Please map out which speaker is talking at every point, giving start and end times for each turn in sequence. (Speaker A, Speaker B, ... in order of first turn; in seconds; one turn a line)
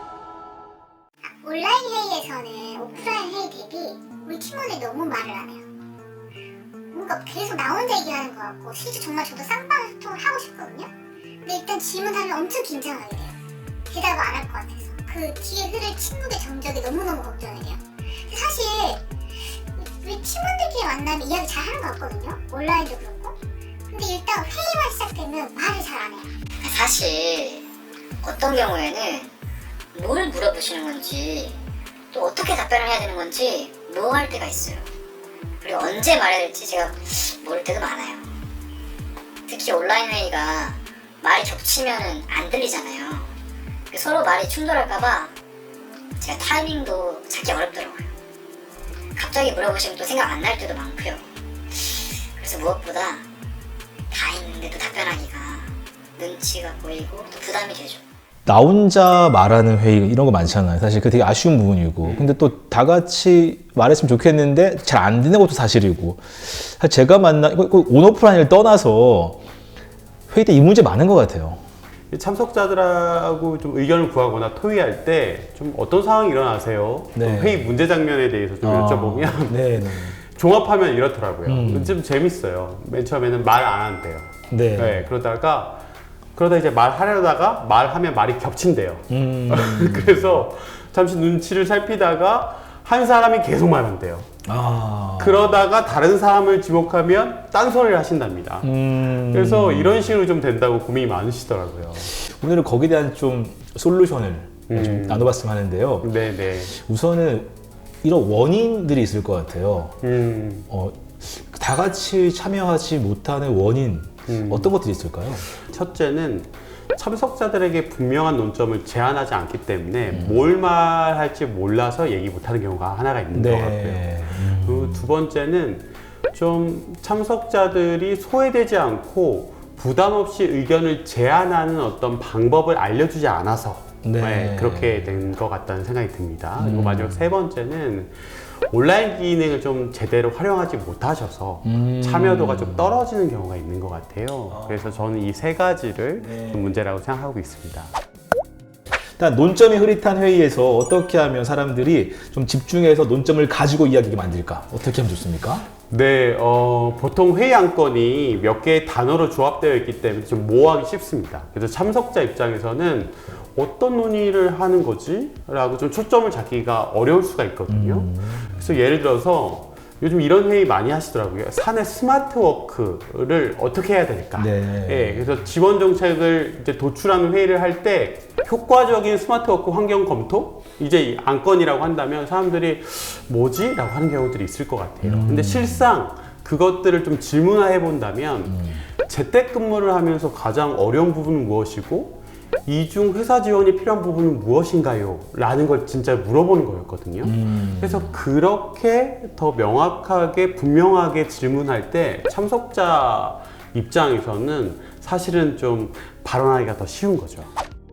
Speaker A: 1.4-5.7
Speaker A: 6.9-10.9
Speaker A: 11.4-13.3
Speaker A: 13.9-19.0
Speaker A: 19.8-23.4
Speaker A: 23.9-26.3
Speaker B: 26.6-27.7
Speaker B: 28.2-29.3
Speaker B: 29.9-31.6
Speaker B: 32.1-34.9
Speaker B: 35.6-38.3
Speaker B: 39.5-43.3
Speaker B: 43.9-45.3
Speaker B: 46.2-48.1
Speaker B: 49.2-53.2
Speaker B: 54.1-58.0
Speaker C: 58.5-69.4
Speaker D: 62.0-62.3
Speaker C: 70.3-71.6
Speaker D: 72.1-85.8
Speaker C: 77.2-77.7
Speaker C: 78.6-80.2
Speaker C: 81.5-82.0
Speaker C: 84.5-85.1
Speaker D: 86.3-94.3
Speaker C: 89.1-90.5
Speaker C: 94.5-95.6
Speaker D: 95.2-102.2
Speaker C: 98.6-100.1
Speaker C: 102.2-106.1
Speaker D: 104.7-105.3
Speaker D: 106.0-106.7
Speaker C: 106.7-107.5
Speaker C: 108.0-110.0
Speaker D: 110.0-110.7
Speaker C: 110.7-115.5
Speaker D: 114.3-114.7
Speaker D: 115.5-147.9
Speaker C: 120.1-120.4
Speaker C: 123.3-125.1
Speaker C: 134.0-135.2
Speaker C: 136.6-137.3
Speaker C: 141.6-143.0
Speaker C: 144.5-144.9
Speaker C: 146.2-146.7
Speaker C: 149.2-155.7
Speaker D: 155.9-207.5
Speaker C: 167.7-168.8
Speaker C: 174.3-175.4
Speaker C: 185.0-185.9
Speaker C: 188.5-188.8
Speaker C: 197.2-198.2